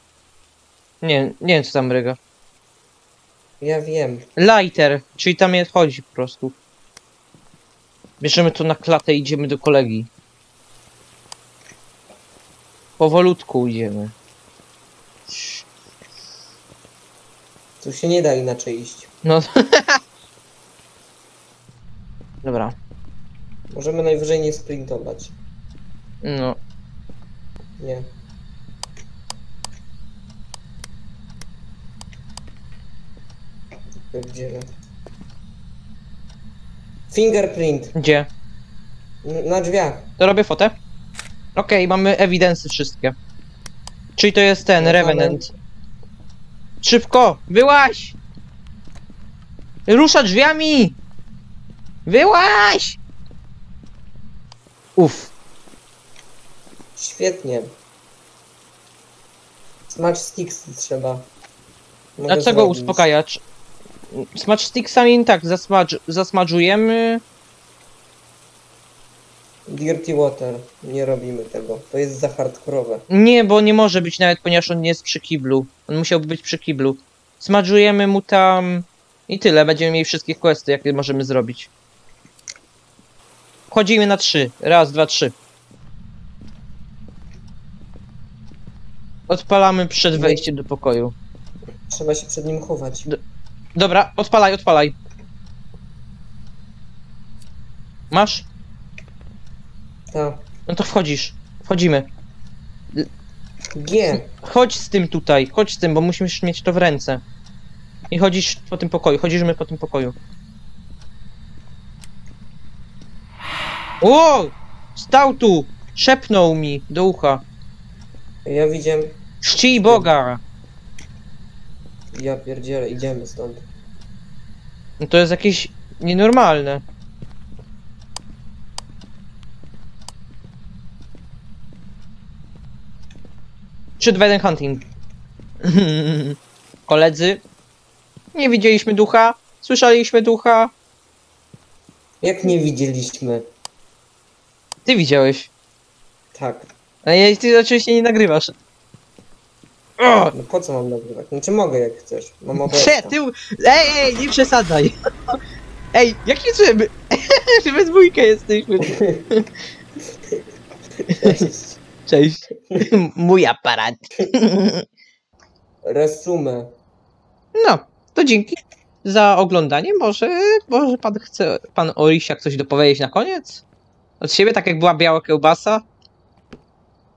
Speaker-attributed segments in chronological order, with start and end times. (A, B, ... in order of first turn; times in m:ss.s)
0:01.0-0:02.2 A
0:03.6-0:04.2 B
0:04.4-0:06.6 A
0:08.2-0:10.1 A
0:13.0-0:14.1 A
0:15.3-0:15.6 A
0:17.8-0:19.1 B
0:19.2-0:20.0 A
0:22.4-0:22.8 A
0:23.7-0:25.3 B
0:26.2-0:26.6 A
0:27.8-0:28.0 B
0:34.1-0:34.6 B
0:37.1-0:37.9 B
0:37.9-0:38.3 A
0:39.2-0:40.1 B
0:40.2-0:40.7 A
0:41.5-0:43.2 A
0:44.2-0:45.5 A
0:44.8-0:45.4 B
0:46.8-0:48.2 A
0:49.9-0:51.0 A
0:52.0-0:53.0 A
0:55.0-0:55.3 A
0:57.0-0:57.7 B
0:59.9-1:01.3 B
1:02.2-1:03.1 B
1:02.3-1:03.4 A
1:04.1-1:07.2 A
1:09.7-1:13.0 B
1:13.1-1:21.7 A
1:23.7-1:25.3 A
1:29.3-1:31.1 A
1:30.1-1:30.4 B
1:31.9-1:33.1 B
1:33.8-1:34.9 A
1:38.1-1:38.5 A
1:40.1-1:40.4 B
1:40.7-1:42.1 A
1:43.8-1:44.3 B
1:44.1-1:47.2 A
1:48.1-1:50.1 A
1:54.0-1:57.4 A
1:58.4-1:59.2 B
1:59.4-2:00.4 A
1:59.7-2:00.1 B
2:02.1-2:03.6 B
2:05.0-2:06.8 A
2:14.0-2:14.8 A
2:15.6-2:17.4 A
2:18.3-2:20.7 A
2:22.2-2:23.4 B
2:24.8-2:25.5 A
2:26.3-2:26.7 B
2:27.0-2:28.5 A
2:30.0-2:30.3 A
2:30.3-2:33.2 B
2:32.6-2:34.9 A
2:35.9-2:39.5 A
2:41.1-2:41.4 A
2:41.2-2:41.8 B
2:42.1-2:44.8 A
2:45.8-2:46.7 B
2:47.5-2:53.6 A
2:54.2-2:55.8 A